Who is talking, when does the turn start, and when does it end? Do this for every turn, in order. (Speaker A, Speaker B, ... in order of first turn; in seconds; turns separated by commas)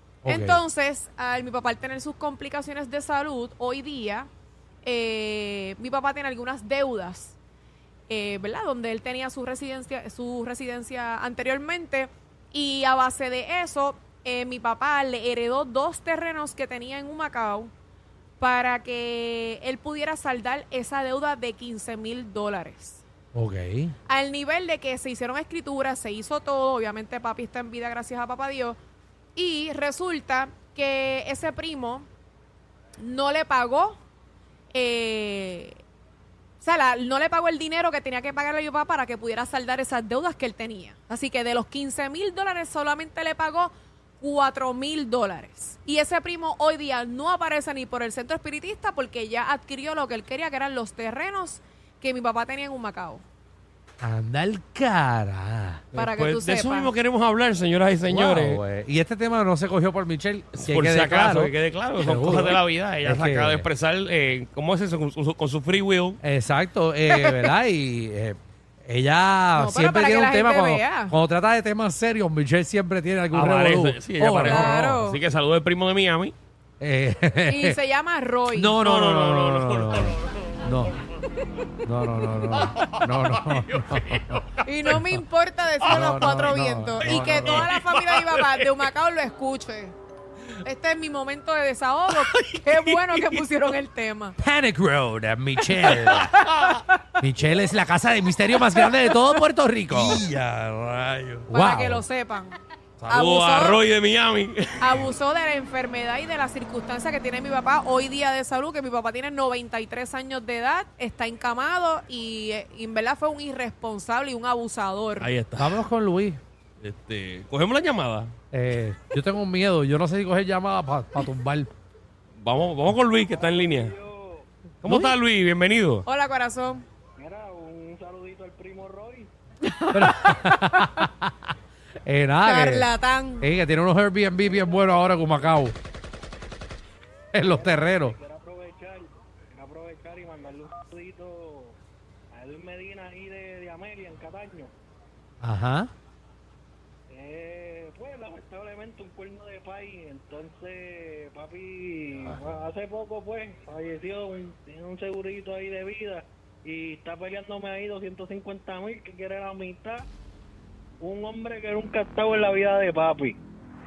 Speaker A: 0.2-0.6, Speaker B: 0.2-4.3, Speaker B: 4.8-7.3, Speaker B: 8.1-17.7, Speaker B: 18.4-23.0, Speaker A: 23.3-23.9, Speaker B: 24.1-28.8, Speaker B: 29.3-32.0, Speaker B: 33.0-34.0, Speaker B: 34.7-35.8, Speaker B: 36.6-53.2, Speaker A: 54.0-55.9, Speaker B: 55.9-56.9, Speaker C: 55.9-58.6, Speaker A: 58.1-63.6, Speaker C: 60.6-66.2, Speaker A: 66.2-75.0, Speaker B: 69.5-71.1, Speaker C: 73.3-76.3, Speaker B: 74.4-75.2, Speaker A: 76.8-77.8, Speaker B: 77.5-78.8, Speaker A: 78.5-80.9, Speaker C: 78.8-80.3, Speaker A: 81.8-84.4, Speaker C: 82.5-85.0, Speaker B: 84.6-89.9, Speaker A: 85.8-87.7, Speaker C: 87.0-88.9, Speaker B: 90.6-94.4, Speaker C: 92.1-93.4, Speaker A: 94.4-96.3, Speaker C: 96.0-96.8, Speaker B: 96.1-96.8, Speaker A: 97.2-100.2, Speaker B: 98.7-99.1, Speaker C: 99.9-101.5, Speaker A: 101.5-102.0, Speaker B: 101.5-103.8, Speaker C: 103.0-105.1, Speaker B: 104.8-115.3, Speaker C: 115.2-115.8, Speaker A: 115.5-116.4, Speaker C: 116.8-118.3, Speaker A: 118.5-121.7, Speaker C: 122.4-123.9, Speaker D: 123.1-124.5, Speaker C: 124.8-126.0, Speaker A: 124.8-125.1, Speaker B: 126.0-126.8, Speaker D: 127.2-129.3, Speaker B: 129.6-131.1, Speaker A: 129.9-131.5, Speaker A: 132.0-132.9, Speaker B: 132.4-133.4, Speaker A: 133.4-135.7, Speaker D: 134.4-135.0, Speaker A: 137.3-138.2, Speaker D: 137.4-141.7, Speaker D: 142.3-144.7, Speaker A: 145.4-145.9, Speaker D: 147.1-160.1, Speaker D: 161.0-163.4